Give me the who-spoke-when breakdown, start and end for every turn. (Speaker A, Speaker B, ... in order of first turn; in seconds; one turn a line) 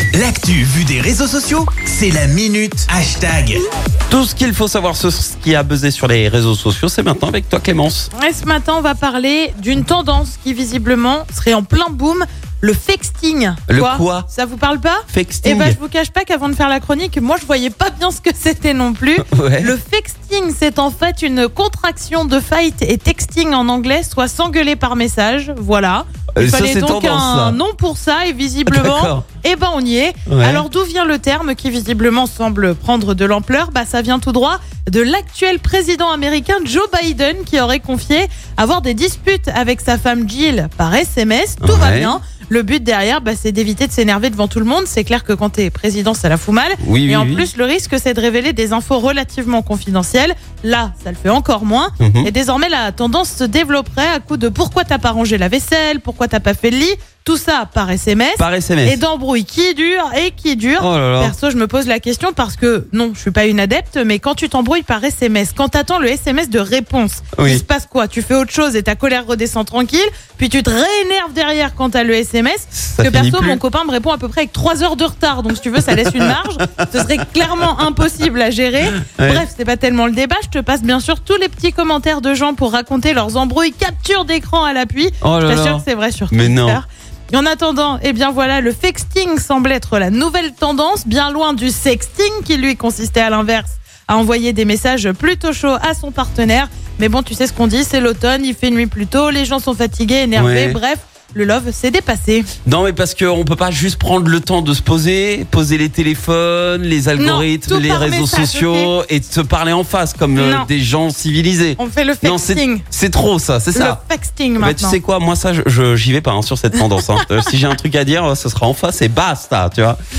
Speaker A: 0.1-3.6
Speaker B: 4.1-8.1
Speaker C: 8.1-102.5
Speaker B: 13.7-14.3
Speaker B: 15.1-15.8
Speaker B: 19.2-19.7
Speaker B: 26.3-27.6
Speaker B: 28.6-29.2
Speaker B: 30.2-30.6
Speaker B: 41.6-42.1
Speaker B: 46.8-47.5
Speaker B: 52.0-52.3
Speaker B: 58.4-59.0
Speaker B: 60.8-61.3
Speaker B: 67.3-67.6
Speaker B: 72.7-73.6
Speaker B: 75.9-77.7
Speaker B: 78.8-79.4
Speaker B: 85.2-86.8
Speaker B: 100.3-100.8
Speaker B: 102.6-114.0
Speaker C: 107.2-108.9
Speaker C: 110.3-110.7
Speaker C: 111.8-112.8
Speaker C: 113.7-115.0
Speaker B: 114.6-120.0